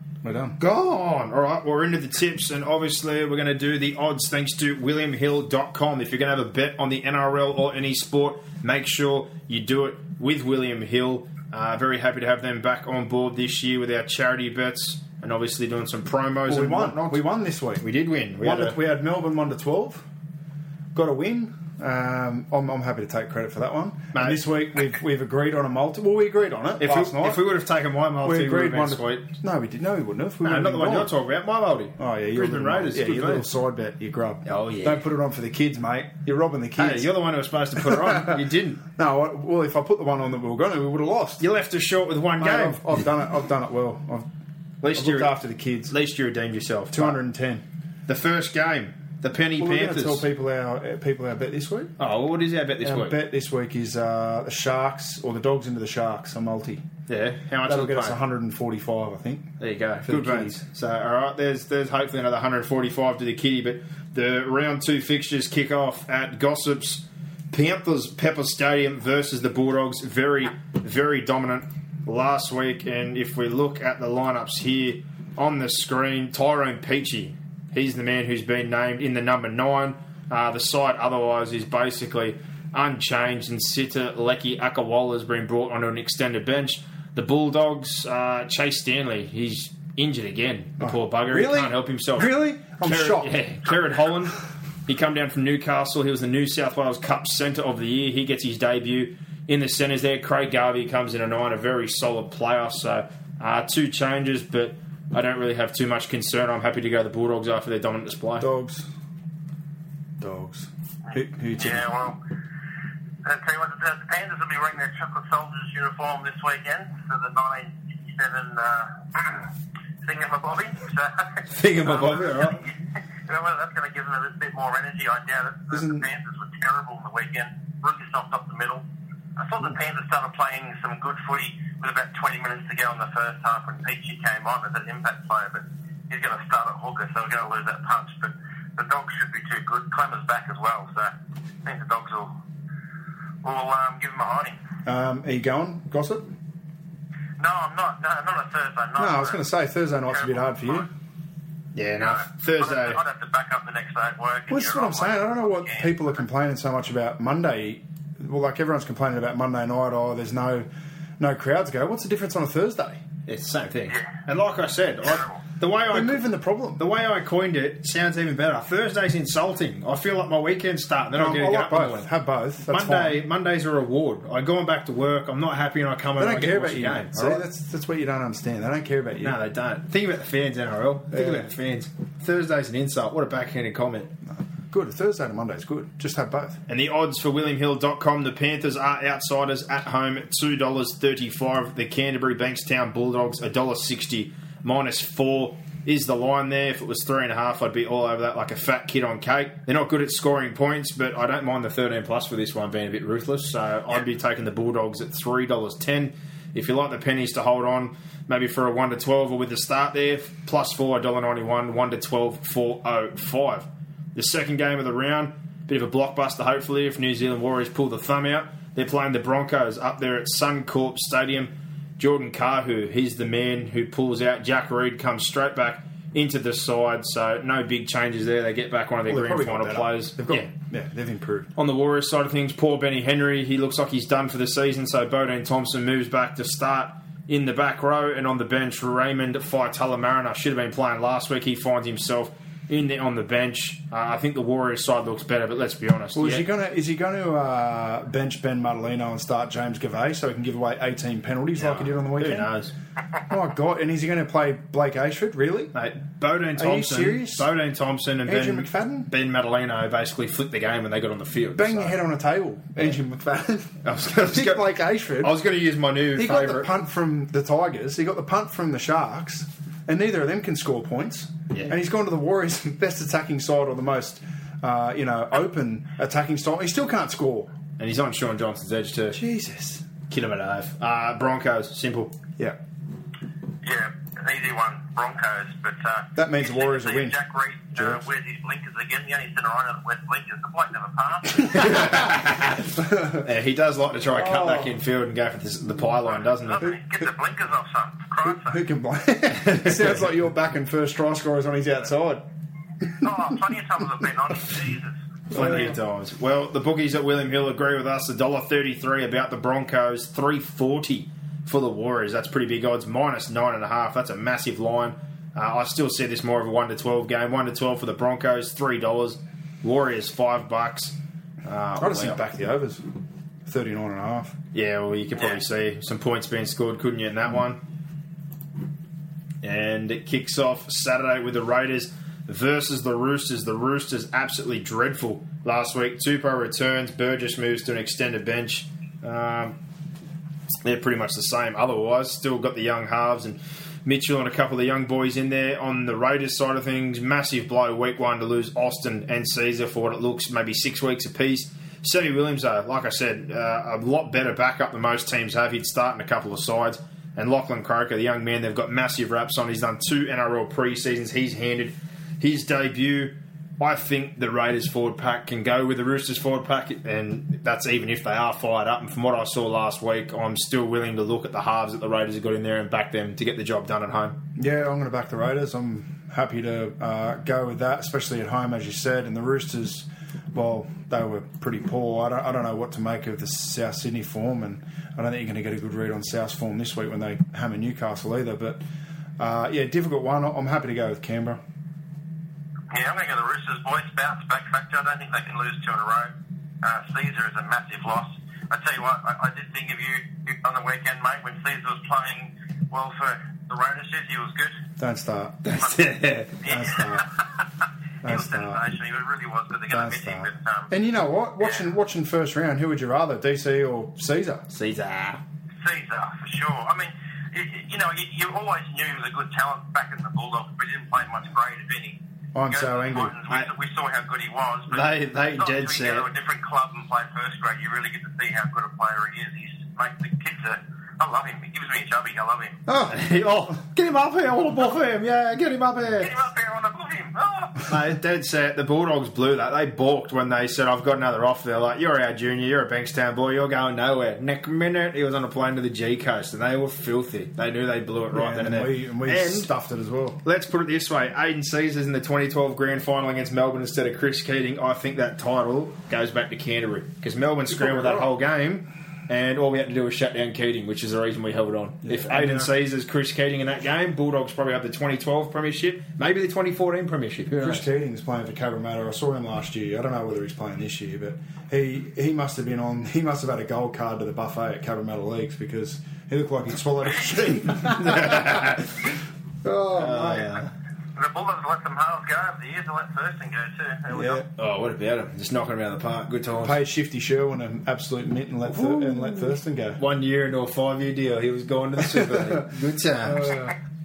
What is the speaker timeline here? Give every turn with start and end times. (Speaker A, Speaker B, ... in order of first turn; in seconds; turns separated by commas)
Speaker A: 0.2-0.6, Speaker B: 0.6-17.2, Speaker A: 16.5-17.9, Speaker B: 17.8-18.8, Speaker A: 18.4-20.1, Speaker A: 20.9-27.4, Speaker B: 24.1-24.4, Speaker B: 26.8-29.3, Speaker A: 28.2-31.1, Speaker B: 30.4-33.5, Speaker A: 32.0-37.1, Speaker B: 34.5-35.0, Speaker B: 36.8-38.8, Speaker A: 37.8-38.4, Speaker A: 39.0-41.4, Speaker B: 41.4-42.9, Speaker A: 42.4-44.3, Speaker B: 44.8-45.3, Speaker A: 44.9-46.0, Speaker B: 45.9-47.2, Speaker A: 46.9-47.6, Speaker B: 48.1-50.3, Speaker A: 49.6-51.9, Speaker B: 52.0-53.2, Speaker A: 52.8-56.9, Speaker B: 57.1-58.2, Speaker A: 57.6-59.5, Speaker B: 59.6-94.4, Speaker A: 60.0-60.6, Speaker A: 90.8-93.4, Speaker B: 94.9-108.5, Speaker A: 108.4-108.9, Speaker A: 110.2-111.9, Speaker C: 111.1-112.2, Speaker C: 113.2-119.5, Speaker C: 120.0-122.4, Speaker B: 121.5-122.7, Speaker C: 123.3-128.8, Speaker A: 125.7-126.1, Speaker C: 129.4-142.3, Speaker C: 143.4-144.6, Speaker A: 144.8-146.3, Speaker C: 147.4-149.4, Speaker A: 149.0-150.9, Speaker B: 151.8-153.0, Speaker C: 152.0-155.9, Speaker A: 154.5-160.7, Speaker A: 161.2-163.0, Speaker B: 163.3-166.2, Speaker C: 165.2-165.4, Speaker A: 165.9-166.8, Speaker B: 166.8-172.1, Speaker A: 171.1-173.2, Speaker B: 172.7-177.4, Speaker A: 176.2-179.4, Speaker B: 179.2-184.1, Speaker A: 181.1-181.5, Speaker A: 184.3-186.6, Speaker B: 186.7-230.5, Speaker A: 229.1-231.5, Speaker B: 231.6-246.5, Speaker A: 246.2-252.5, Speaker B: 251.6-252.7, Speaker A: 253.3-255.7, Speaker B: 255.7-262.0, Speaker A: 256.6-257.5, Speaker A: 258.3-259.1, Speaker A: 261.5-265.4, Speaker B: 263.8-266.7, Speaker A: 266.2-277.5, Speaker B: 277.8-279.2, Speaker A: 279.1-279.8, Speaker B: 280.1-282.1, Speaker C: 283.6-292.0, Speaker A: 286.2-287.2, Speaker A: 287.8-288.0, Speaker B: 291.6-296.7, Speaker A: 292.8-293.3, Speaker A: 294.1-294.8, Speaker C: 296.5-298.6, Speaker A: 298.2-302.2, Speaker B: 299.3-300.1, Speaker C: 303.0-304.9, Speaker B: 305.3-322.2, Speaker A: 305.3-305.8, Speaker A: 321.8-322.8, Speaker A: 323.5-324.4, Speaker B: 324.5-327.6, Speaker B: 329.4-339.6, Speaker B: 340.6-374.2, Speaker A: 374.4-388.6, Speaker A: 389.2-391.4, Speaker C: 392.7-396.1, Speaker C: 396.6-404.6, Speaker A: 404.8-405.4, Speaker B: 405.4-406.4, Speaker C: 406.4-407.1, Speaker A: 406.4-407.1, Speaker A: 408.0-408.6, Speaker C: 408.0-410.7, Speaker A: 409.7-414.4, Speaker B: 414.5-415.2, Speaker C: 415.6-432.6, Speaker A: 422.4-423.1, Speaker B: 424.7-426.1, Speaker A: 432.7-433.0, Speaker B: 432.9-436.1, Speaker C: 435.9-437.7, Speaker B: 437.7-449.5, Speaker A: 448.1-450.2, Speaker B: 450.2-467.7, Speaker A: 457.5-458.1, Speaker A: 461.9-462.5, Speaker A: 467.4-478.6, Speaker B: 477.7-478.7, Speaker A: 479.4-480.3, Speaker B: 479.7-480.5, Speaker C: 480.9-484.2, Speaker A: 483.9-484.2, Speaker B: 484.4-486.6, Speaker A: 486.4-489.8, Speaker B: 488.5-493.4, Speaker A: 491.8-492.5, Speaker A: 493.0-493.5